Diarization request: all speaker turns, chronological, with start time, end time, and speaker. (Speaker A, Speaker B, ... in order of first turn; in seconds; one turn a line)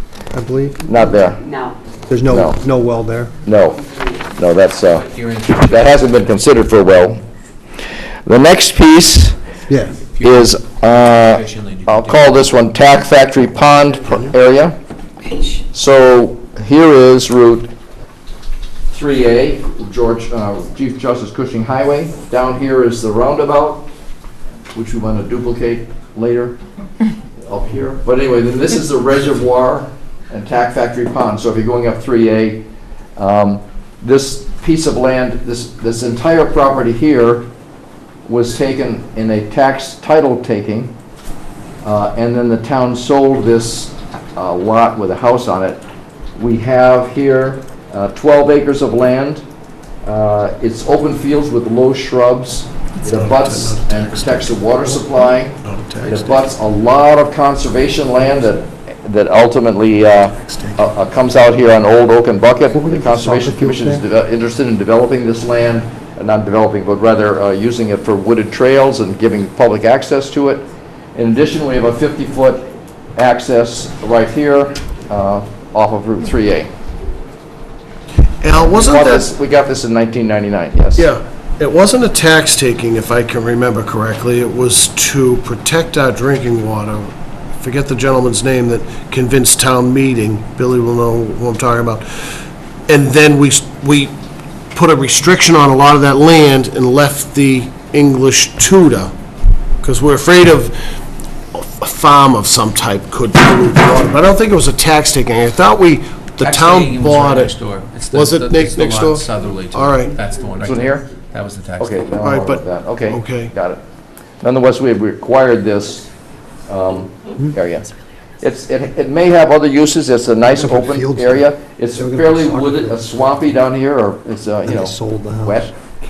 Speaker A: 0.3-0.8
Speaker B: 0.8-1.4
Speaker A: 2.1-3.3
Speaker B: 2.3-2.6
Speaker B: 3.4-3.8
Speaker B: 4.3-5.1
Speaker C: 4.9-6.2
Speaker B: 5.7-7.2
Speaker B: 8.2-9.4
Speaker A: 9.7-10.0
Speaker C: 9.8-12.4
Speaker B: 10.2-14.8
Speaker B: 15.7-17.7
Speaker B: 18.9-23.9
Speaker B: 24.7-26.6
Speaker B: 27.4-32.6
Speaker B: 33.2-37.5
Speaker B: 38.2-40.9
Speaker B: 41.8-45.8
Speaker B: 46.4-49.4
Speaker B: 50.0-76.7
Speaker D: 53.0-55.1
Speaker D: 55.6-56.4
Speaker C: 56.1-56.4
Speaker D: 60.3-60.8
Speaker A: 62.7-64.0
Speaker D: 78.4-79.3
Speaker B: 78.5-81.1
Speaker D: 81.0-94.1
Speaker D: 94.7-99.1
Speaker D: 99.8-100.8
Speaker D: 101.5-107.5
Speaker C: 106.4-112.0
Speaker D: 108.1-110.2
Speaker B: 110.6-111.1
Speaker B: 111.8-113.8
Speaker D: 112.2-113.5
Speaker B: 114.4-116.1
Speaker B: 116.7-117.9
Speaker B: 118.4-125.7
Speaker A: 120.5-123.0
Speaker A: 124.6-125.7